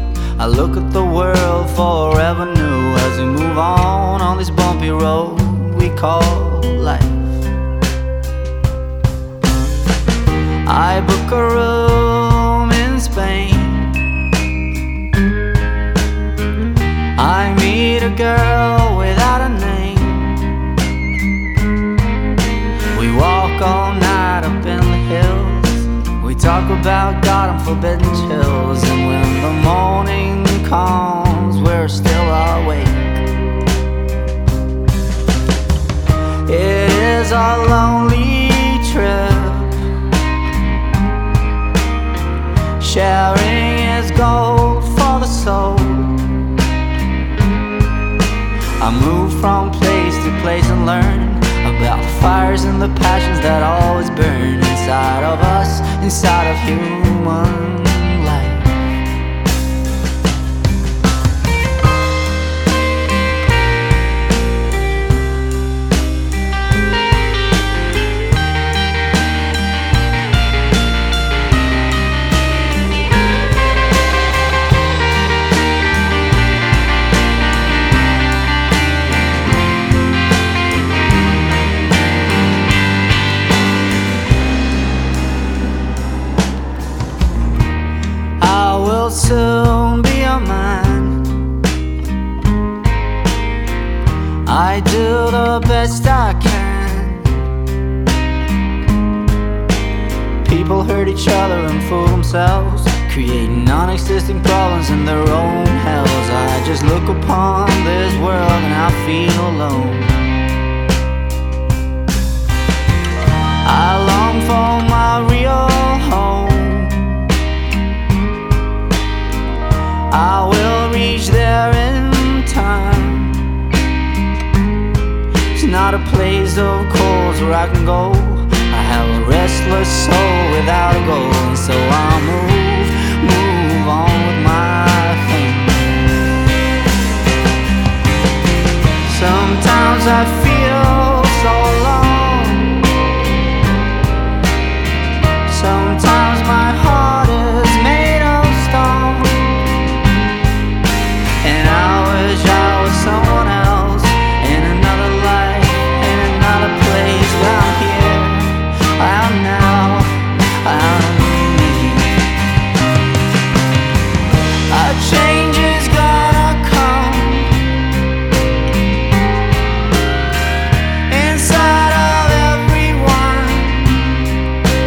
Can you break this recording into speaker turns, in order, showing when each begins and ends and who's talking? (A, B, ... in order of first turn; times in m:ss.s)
0:00.4-0:07.4 A
0:10.6-0:14.0 A
0:17.2-0:20.5 A
0:22.9-0:33.2 A
0:36.5-0:39.8 A
0:42.8-0:46.3 A
0:48.8-0:59.0 A
1:28.4-1:31.4 A
1:34.5-1:37.4 A
1:40.4-1:50.4 A
1:53.6-1:57.2 A
2:00.1-2:03.5 A
2:05.5-2:16.1 A
2:19.0-2:22.9 A
2:25.5-2:29.5 A
2:31.4-2:42.2 A
2:44.7-2:47.7 A
2:51.1-2:54.2 A